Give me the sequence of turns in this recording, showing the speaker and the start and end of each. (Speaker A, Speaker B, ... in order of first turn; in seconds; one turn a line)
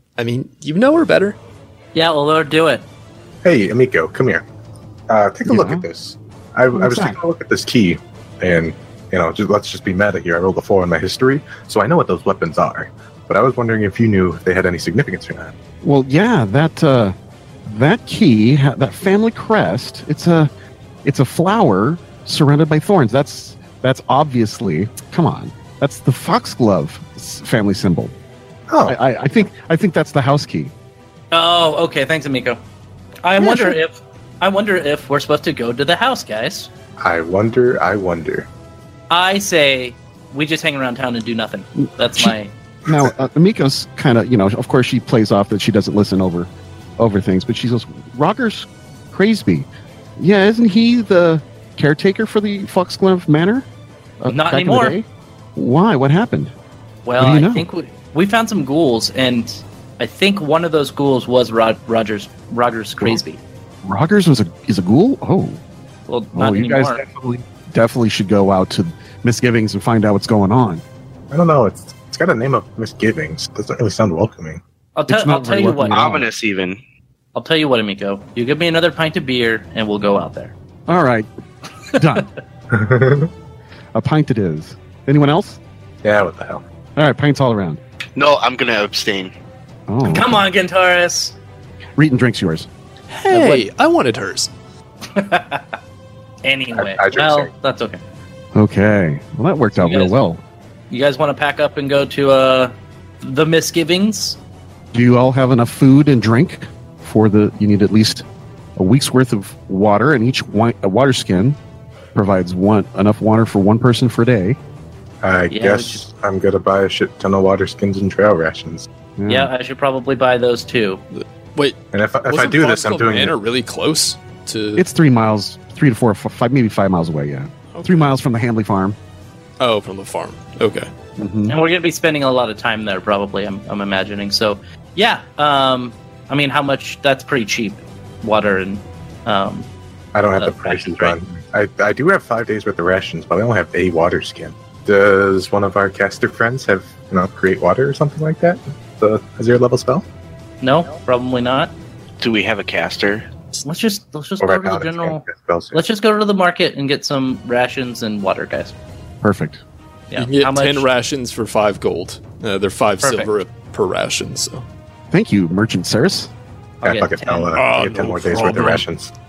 Speaker A: 0.2-1.4
Speaker B: 1.9-2.8
Speaker C: 3.4-4.4
Speaker C: 5.1-15.5
Speaker D: 5.5-5.9
Speaker D: 6.7-7.2
Speaker D: 15.8-17.1
Speaker D: 17.6-20.5
Speaker D: 21.0-28.1
Speaker C: 28.7-28.9
Speaker D: 28.9-30.7
Speaker B: 31.3-32.6
Speaker B: 33.2-36.7
Speaker D: 33.4-33.8
Speaker C: 37.0-38.5
Speaker B: 39.1-42.5
Speaker D: 41.8-53.7
Speaker D: 54.2-56.5
Speaker B: 54.3-55.0
Speaker B: 57.0-63.4
Speaker D: 57.2-57.6
Speaker D: 63.8-65.6
Speaker B: 66.1-67.0
Speaker D: 66.3-70.8
Speaker C: 71.3-74.6
Speaker B: 74.9-76.1
Speaker D: 75.1-76.3
Speaker E: 75.9-76.8
Speaker B: 77.3-80.5
Speaker D: 80.9-81.3
Speaker D: 81.9-82.3
Speaker C: 82.7-83.3
Speaker D: 83.9-85.6
Speaker C: 86.0-86.6
Speaker D: 87.0-87.8
Speaker E: 88.2-89.3
Speaker D: 89.9-90.4
Speaker B: 90.0-91.3
Speaker D: 92.0-92.7
Speaker A: 93.1-94.5
Speaker B: 93.3-93.7
Speaker B: 95.1-95.8
Speaker B: 96.4-98.0
Speaker C: 96.7-97.5
Speaker D: 98.5-100.4
Speaker B: 99.7-100.2
Speaker B: 100.9-104.4
Speaker D: 104.9-108.2
Speaker D: 108.8-111.6
Speaker D: 112.1-114.6
Speaker C: 115.2-118.9
Speaker B: 115.5-116.0
Speaker D: 119.2-119.5
Speaker B: 119.3-121.0
Speaker A: 121.1-124.8
Speaker C: 121.9-123.4
Speaker D: 124.7-129.0
Speaker A: 127.7-128.0
Speaker A: 129.6-130.9
Speaker D: 131.2-131.6
Speaker B: 131.5-139.7
Speaker C: 140.1-150.0
Speaker B: 140.4-141.2
Speaker B: 150.6-151.7
Speaker E: 152.2-153.3
Speaker B: 153.6-158.7
Speaker C: 154.4-155.8
Speaker D: 159.2-159.6
Speaker B: 160.1-160.9
Speaker A: 160.2-164.6
Speaker B: 163.0-163.3
Speaker D: 165.1-166.3
Speaker B: 166.8-167.5
Speaker C: 166.8-169.1
Speaker A: 167.5-168.8